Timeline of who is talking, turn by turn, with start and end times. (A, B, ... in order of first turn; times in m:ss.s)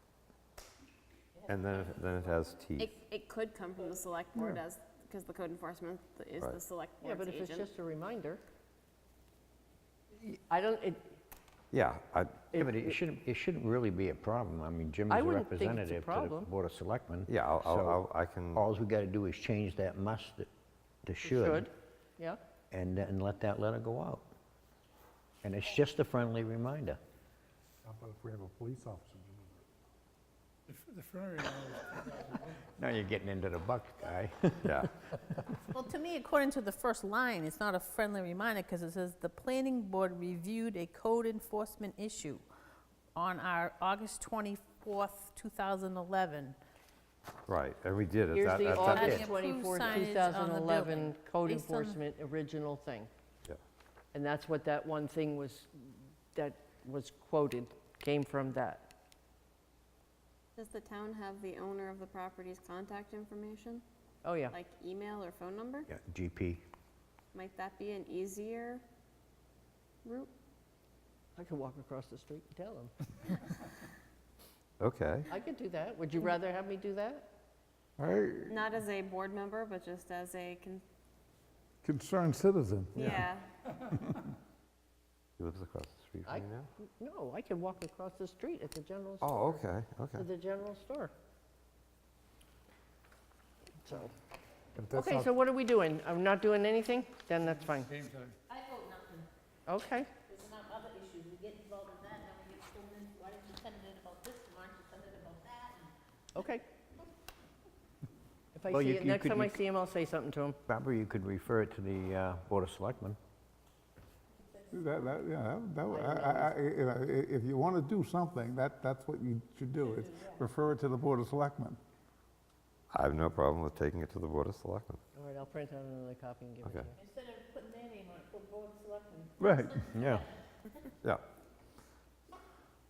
0:01.5-0:02.9 A
0:02.8-0:07.7 B
0:07.0-0:08.4 C
0:10.2-0:11.2 C
0:11.7-0:12.4 A
0:12.5-0:12.9 C
0:12.5-0:20.5 D
0:15.1-0:16.5 C
0:17.3-0:18.6 A
0:21.0-0:21.7 D
0:21.2-0:22.4 C
0:22.7-0:24.2 D
0:25.4-0:27.0 D
0:27.8-0:29.6 E
0:30.7-0:32.5 F
0:32.8-0:35.6 D
0:34.6-0:34.9 A
0:35.7-0:42.4 G
0:43.1-0:46.6 G
0:47.5-0:49.3 A
0:48.3-0:53.1 C
0:48.6-0:52.0 G
0:54.1-0:58.9 C
1:00.6-1:03.8 B
1:04.2-1:04.6 C
1:04.5-1:05.9 B
1:05.9-1:06.6 D
1:07.3-1:08.8 B
1:10.0-1:10.3 B
1:11.4-1:12.9 C
1:14.8-1:15.3 A
1:15.3-1:17.3 C
1:18.0-1:18.6 E
1:18.5-1:20.8 B
1:21.8-1:23.3 E
1:22.9-1:23.4 B
1:23.9-1:24.2 E
1:25.4-1:26.7 A
1:26.2-1:29.6 C
1:29.2-1:30.2 A
1:30.1-1:31.1 C
1:33.8-1:34.1 C
1:34.8-1:35.3 E
1:34.9-1:37.9 C
1:37.8-1:38.4 F
1:38.5-1:39.3 G
1:39.7-1:40.1 C
1:40.2-1:45.9 G
1:46.3-1:46.6 C
1:48.5-1:50.6 C
1:48.7-1:49.6 D
1:50.7-1:53.2 D
1:54.7-2:01.8 E
1:55.9-1:56.5 C
1:59.8-2:00.4 G
2:02.9-2:05.0 A
2:05.1-2:07.0 C
2:07.0-2:10.2 G
2:09.4-2:09.9 E
2:09.9-2:10.2 D